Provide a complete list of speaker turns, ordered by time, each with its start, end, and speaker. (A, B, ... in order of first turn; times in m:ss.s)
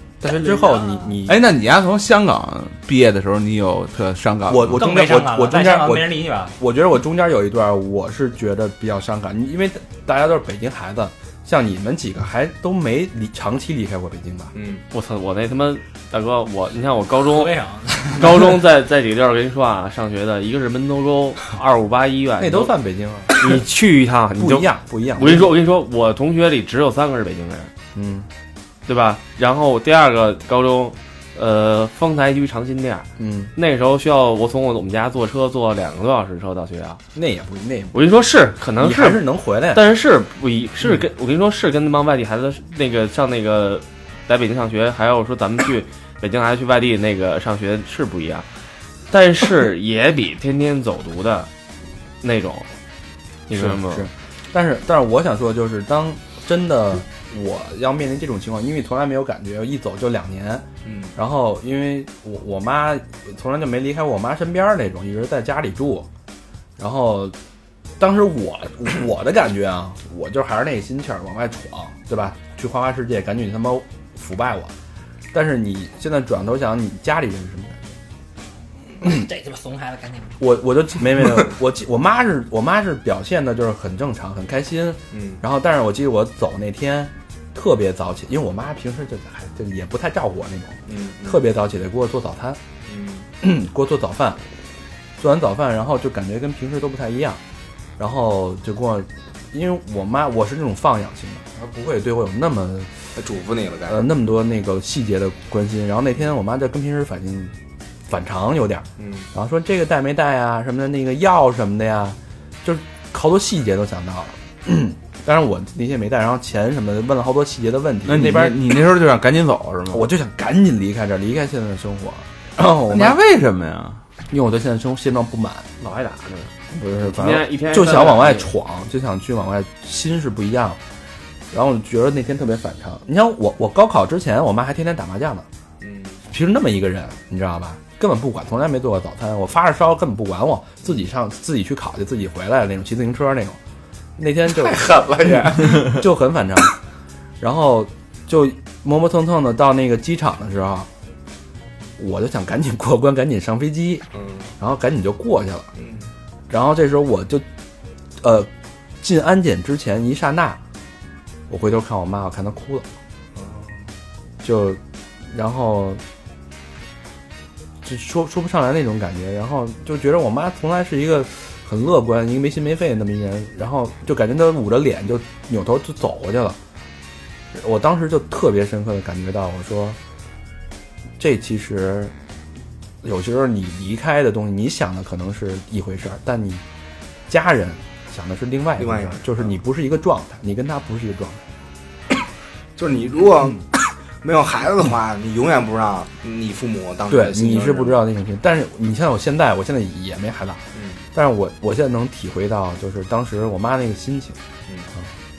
0:00.2-0:01.4 A
0:00.3-0:01.2 B
0:01.3-0:04.8 C
0:04.5-0:14.5 A
0:04.8-0:06.6 B
0:14.6-0:14.8 D
0:14.9-0:17.5 E
0:17.3-0:18.4 B
0:18.1-0:22.7 E
0:22.4-0:23.6 A
0:23.4-0:27.7 E
0:24.4-0:25.5 A
0:27.9-0:28.3 A
0:28.9-0:37.0 E
0:33.2-0:33.5 A
0:37.2-0:38.0 A
0:37.9-0:48.5 E
0:38.8-0:39.8 A
0:49.1-0:51.5 E
0:52.2-0:52.7 E
0:53.5-0:54.1 E
0:53.5-1:06.1 A
1:00.8-1:01.1 D
1:06.8-1:07.4 A
1:08.0-1:14.7 A
1:15.3-1:17.8 A
1:19.0-1:20.4 B
1:20.4-1:32.6 A
1:25.1-1:25.4 D
1:30.9-1:31.4 D
1:32.9-1:33.3 D
1:33.4-1:34.4 A
1:35.2-1:37.4 A
1:38.0-1:43.2 A
1:43.2-1:44.0 D
1:43.9-1:47.5 A
1:48.1-1:58.6 A
1:49.0-1:49.3 D
1:58.0-2:00.0 C
1:59.9-2:03.2 A
2:02.9-2:04.0 C
2:04.3-2:05.7 A
2:05.8-2:08.5 E
2:06.7-2:10.8 A
2:11.5-2:15.5 A
2:15.8-2:16.2 D
2:16.3-2:23.6 A
2:24.2-2:25.0 A
2:24.6-2:25.8 D
2:25.8-2:26.8 A
2:27.4-2:30.9 A
2:32.0-2:34.1 A
2:34.1-2:34.5 D
2:34.6-2:35.7 A
2:35.8-2:36.1 D
2:36.5-2:37.4 A
2:38.2-2:38.5 A
2:39.0-2:40.6 A
2:41.5-2:42.9 A
2:43.4-2:43.9 D
2:44.4-2:46.0 A
2:47.8-2:56.6 A
2:57.5-3:00.0 A
3:01.2-3:02.1 A
3:03.0-3:06.6 A
3:07.3-3:11.5 A
3:08.8-3:09.5 D
3:12.8-3:18.0 D
3:17.1-3:20.6 A
3:20.8-3:21.0 D
3:21.1-3:24.4 A